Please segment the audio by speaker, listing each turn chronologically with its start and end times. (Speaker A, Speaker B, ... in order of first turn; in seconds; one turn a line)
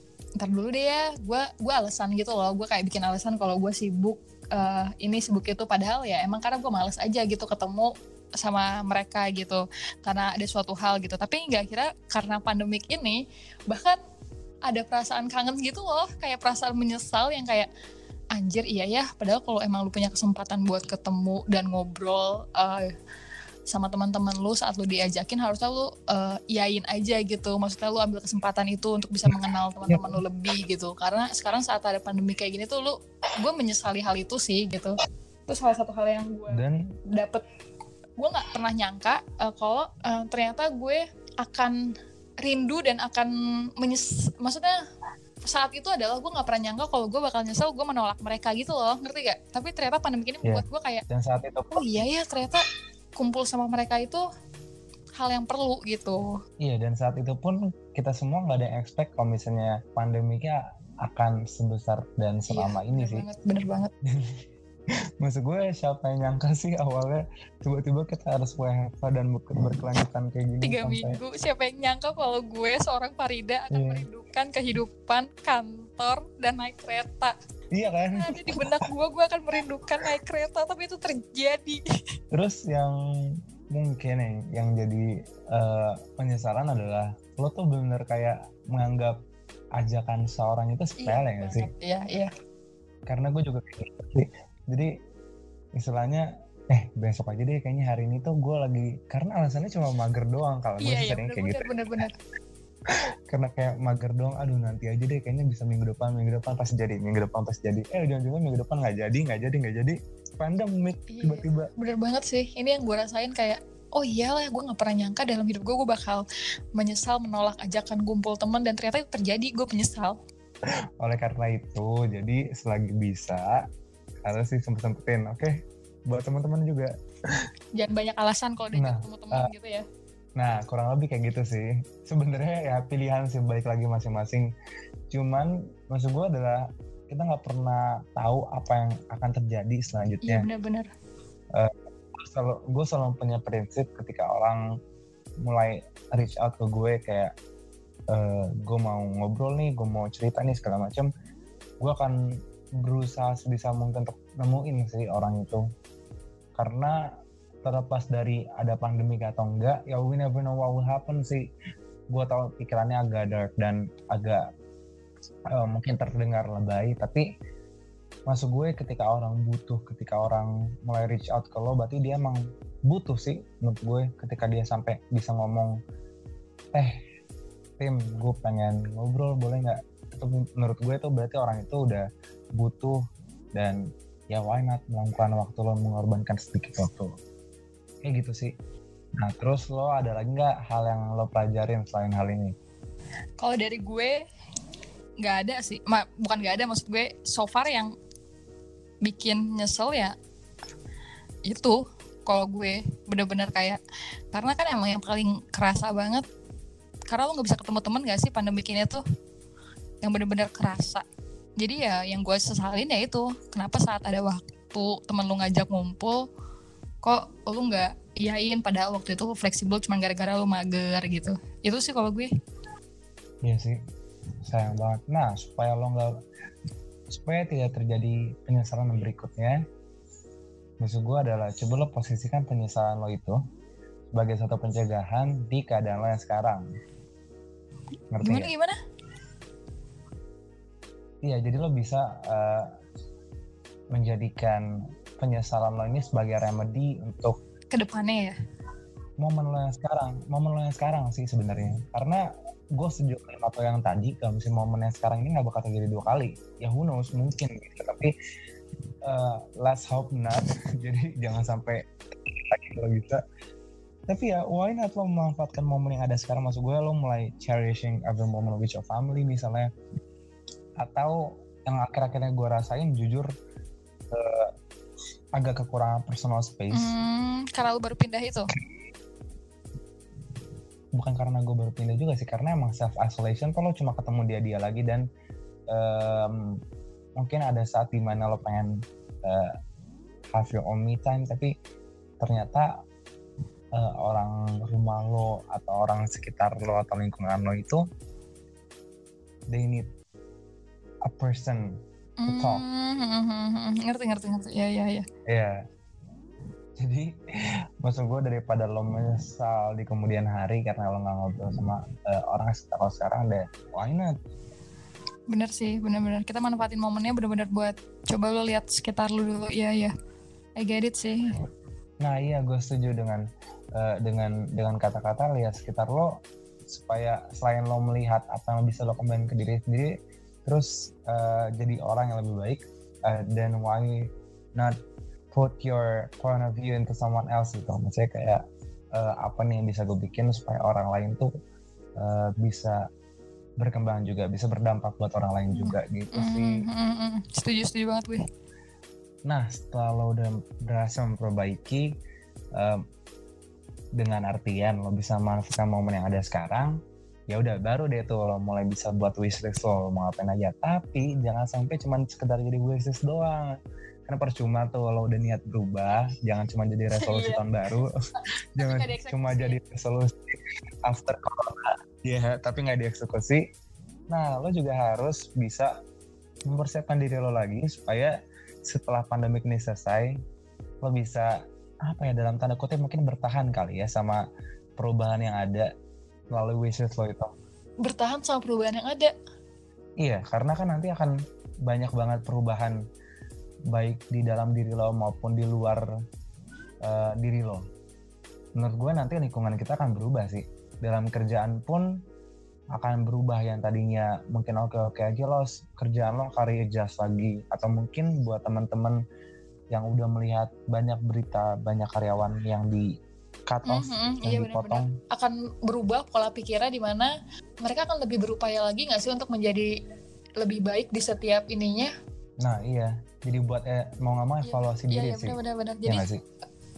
Speaker A: 0.4-14.0
Speaker A: 14.7-17.7
Speaker A: 18.3-22.9
Speaker A: 23.7-35.0
Speaker A: 35.5-37.4
Speaker B: 36.5-36.8
Speaker A: 38.2-41.8
Speaker A: 42.4-44.7
Speaker A: 45.5-51.0
Speaker B: 50.4-51.8
Speaker A: 51.7-52.6
Speaker A: 53.1-54.2
Speaker A: 55.2-56.3
Speaker B: 56.6-63.2
Speaker A: 62.5-63.9
Speaker B: 64.0-64.4
Speaker B: 65.2-71.2
Speaker A: 70.6-77.3
Speaker B: 73.7-74.0
Speaker B: 77.7-78.7
Speaker A: 78.1-81.8
Speaker B: 82.3-83.0
Speaker B: 83.7-89.2
Speaker B: 89.8-91.7
Speaker A: 91.0-92.3
Speaker B: 93.1-94.9
Speaker B: 95.8-101.7
Speaker A: 100.8-102.1
Speaker B: 103.3-111.7
Speaker A: 111.1-116.2
Speaker A: 116.8-120.2
Speaker B: 121.0-123.6
Speaker B: 124.2-125.5
Speaker B: 126.1-127.4
Speaker A: 127.8-129.8
Speaker B: 128.7-129.5
Speaker B: 130.4-134.5
Speaker B: 135.1-140.4
Speaker A: 140.2-140.9
Speaker B: 141.5-144.6
Speaker B: 145.4-147.3
Speaker B: 148.1-151.1
Speaker B: 151.8-152.2
Speaker B: 152.8-155.7
Speaker B: 156.6-157.0
Speaker B: 157.6-161.4
Speaker B: 162.1-164.4
Speaker B: 165.5-167.2
Speaker B: 168.3-175.8
Speaker B: 177.8-182.0
Speaker B: 182.6-183.0
Speaker B: 183.5-187.1
Speaker B: 188.0-188.5
Speaker B: 189.2-192.5
Speaker A: 193.4-194.2
Speaker A: 195.2-197.9
Speaker A: 199.0-200.1
Speaker A: 201.5-203.8
Speaker A: 204.3-206.2
Speaker A: 207.1-209.0
Speaker A: 210.0-211.0
Speaker A: 211.6-216.3
Speaker A: 217.0-222.3
Speaker B: 223.4-223.8
Speaker B: 224.4-226.1
Speaker B: 227.1-229.6
Speaker B: 230.8-233.4
Speaker B: 234.1-236.6
Speaker B: 238.1-238.5
Speaker A: 238.2-238.8
Speaker B: 241.2-242.7
Speaker B: 243.9-244.6
Speaker B: 245.2-247.4
Speaker A: 247.7-248.3
Speaker B: 249.2-252.2
Speaker B: 252.8-258.1
Speaker B: 259.0-263.2
Speaker B: 264.1-269.7
Speaker B: 270.8-273.3
Speaker B: 274.1-274.5
Speaker B: 275.4-276.9
Speaker A: 276.7-278.5
Speaker B: 280.9-285.0
Speaker B: 285.7-286.4
Speaker B: 287.2-288.7
Speaker B: 289.2-289.5
Speaker B: 290.3-291.5
Speaker B: 292.2-292.7
Speaker B: 293.8-297.8
Speaker B: 299.5-299.9
Speaker B: 301.1-302.6
Speaker A: 302.2-305.0
Speaker B: 305.3-305.6
Speaker B: 306.8-307.1
Speaker B: 307.8-314.1
Speaker A: 315.3-319.9
Speaker A: 320.6-321.3
Speaker B: 322.0-323.2
Speaker B: 323.8-326.1
Speaker B: 326.7-329.9
Speaker B: 330.4-334.8
Speaker B: 335.3-338.4
Speaker B: 338.9-341.3
Speaker B: 342.0-342.8
Speaker B: 343.6-346.6
Speaker A: 345.5-348.2
Speaker B: 349.3-351.9
Speaker B: 352.6-352.8
Speaker B: 354.0-356.8
Speaker B: 357.3-363.5
Speaker B: 364.1-367.9
Speaker A: 366.9-367.4
Speaker A: 368.6-369.6
Speaker B: 368.6-373.4
Speaker B: 374.1-375.7
Speaker B: 376.5-378.1
Speaker B: 378.7-380.1
Speaker B: 380.8-381.3
Speaker B: 381.9-384.2
Speaker B: 384.8-385.7
Speaker B: 386.3-387.3
Speaker A: 387.8-389.1
Speaker B: 390.0-391.1
Speaker B: 391.6-392.8
Speaker B: 393.7-395.8
Speaker B: 396.8-397.6
Speaker B: 398.6-401.8
Speaker B: 402.7-409.0
Speaker B: 409.7-412.9
Speaker B: 413.5-414.9
Speaker A: 413.7-417.1
Speaker A: 417.6-419.7
Speaker A: 420.4-421.9
Speaker B: 422.4-426.2
Speaker A: 424.4-426.1